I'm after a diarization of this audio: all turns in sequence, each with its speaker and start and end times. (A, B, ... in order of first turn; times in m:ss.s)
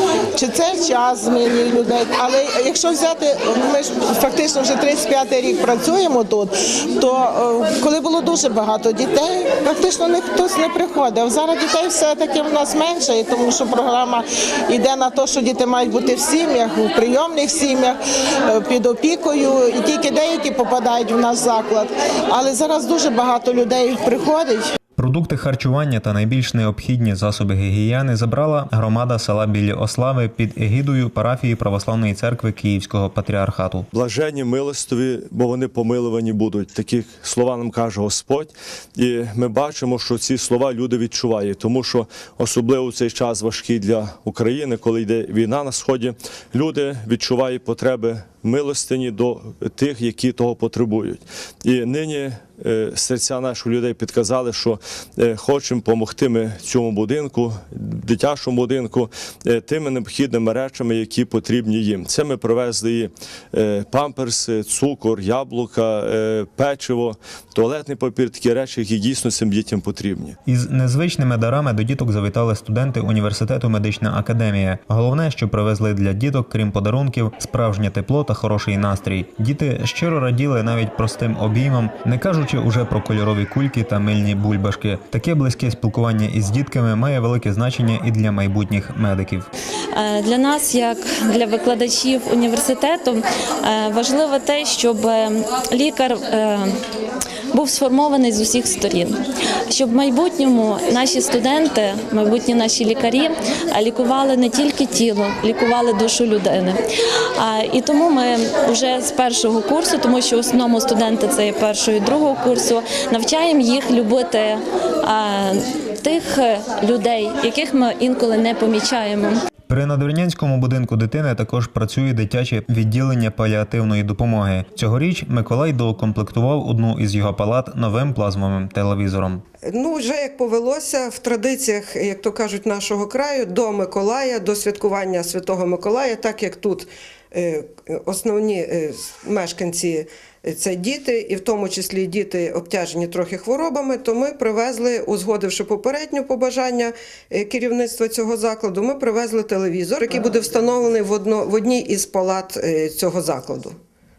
0:00.3-0:18.0 A
0:18.5-0:24.6 A
0:25.0-0:33.9 B
0:33.9-1:10.4 C
1:10.4-1:29.5 B
1:29.9-1:36.7 D
1:37.5-1:39.2 D
1:39.7-1:46.8 D
1:47.4-1:59.4 D
1:59.7-2:09.4 B
2:09.7-2:33.7 E